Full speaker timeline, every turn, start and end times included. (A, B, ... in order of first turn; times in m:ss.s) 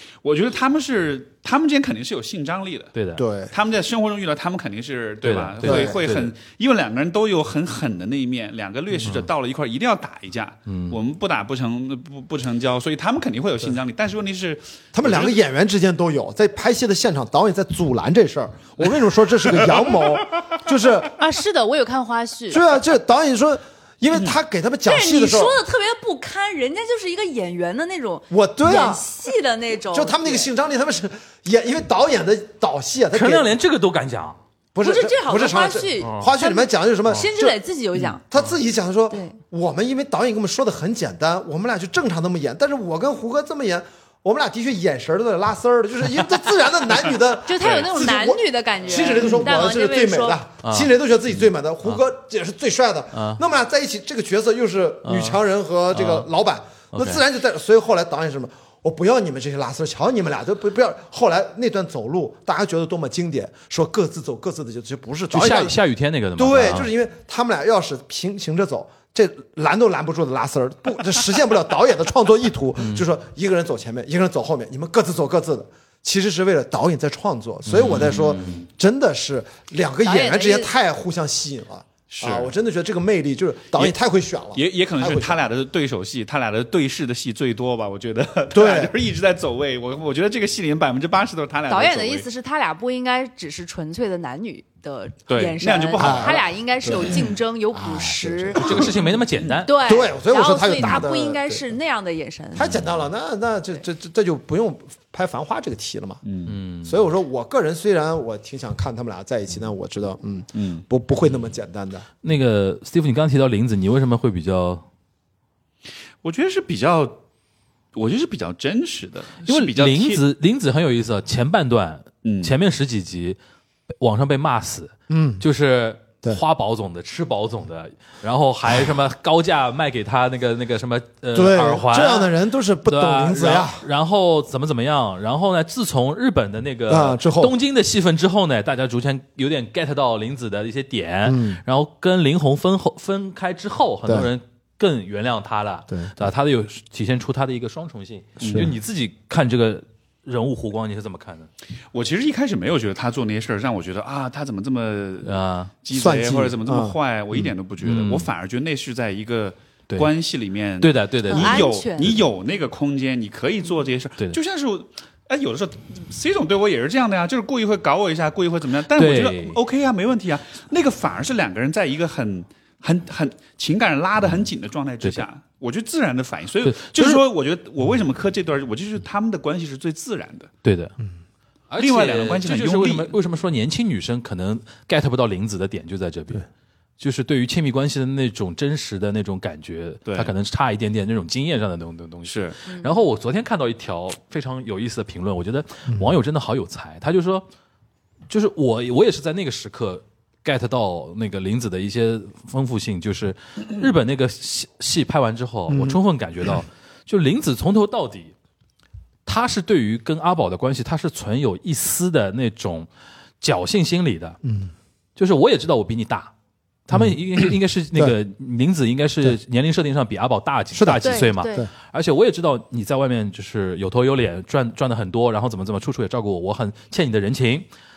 0:00.2-0:02.9 A
0:02.9-0:03.2 B
0:03.2-0:03.5 C
0:03.5-0:15.3 A
0:05.2-0:06.3 B
0:05.6-0:06.0 C
0:09.0-0:09.3 B
0:10.7-0:11.0 B
0:14.9-0:21.2 C
0:21.2-0:22.6 D
0:22.5-0:25.6 C
0:24.8-0:30.5 D
0:28.3-0:29.0 C
0:29.9-0:33.5 C
0:33.1-0:34.4 B
0:34.7-0:37.6 C
0:34.8-0:38.2 D
0:36.0-0:36.3 B
0:38.2-1:05.8 C
0:39.1-0:39.4 D
0:47.4-0:50.4 D
0:47.6-0:47.9 A
0:50.6-0:50.9 B
0:53.1-0:53.4 B
0:55.0-0:55.4 B
0:55.9-0:56.3 B
0:56.9-0:57.2 B
1:05.3-1:06.9 B
1:06.4-1:25.4 C
1:17.7-1:18.6 B
1:18.2-1:18.6 A
1:20.0-1:20.7 D
1:22.1-1:22.5 A
1:24.5-1:32.2 A
1:28.5-1:28.9 C
1:31.7-1:38.8 D
1:35.3-1:36.4 A
1:36.0-1:39.0 C
1:38.6-1:39.7 B
1:39.6-1:42.8 D
1:39.8-1:41.7 C
1:42.5-1:46.2 C
1:46.2-1:46.6 A
1:46.5-1:47.0 B
1:46.8-1:52.1 C
1:50.5-1:50.8 A
1:52.2-1:54.8 B
1:56.2-1:57.2 A
1:57.9-2:00.2 A
1:59.4-2:03.4 B
2:02.2-2:02.5 A
2:04.0-2:12.3 B
2:05.1-2:05.4 C
2:11.3-2:13.8 C
2:12.8-2:31.5 B
2:16.9-2:17.6 C
2:21.2-2:21.6 C
2:25.9-2:26.3 C
2:28.4-2:28.7 A
2:28.4-2:28.7 C
2:31.9-3:00.5 A
2:35.2-2:35.7 B
2:35.9-2:37.0 C
2:37.8-2:38.3 B
2:40.8-2:41.6 B
2:41.3-2:42.2 D
2:48.9-2:49.6 B
2:56.6-2:57.2 B
3:00.6-3:01.0 B
3:01.7-3:06.4 B
3:01.8-3:03.1 A
3:07.0-3:17.4 B
3:10.0-3:10.3 A
3:12.2-3:12.6 A
3:18.3-3:28.3 B
3:25.7-3:26.0 C
3:29.2-3:32.9 B
3:33.4-3:34.4 B
3:34.4-3:34.7 C
3:35.2-3:36.3 B
3:36.9-3:47.7 B
3:40.7-3:41.7 C
3:41.0-3:41.7 D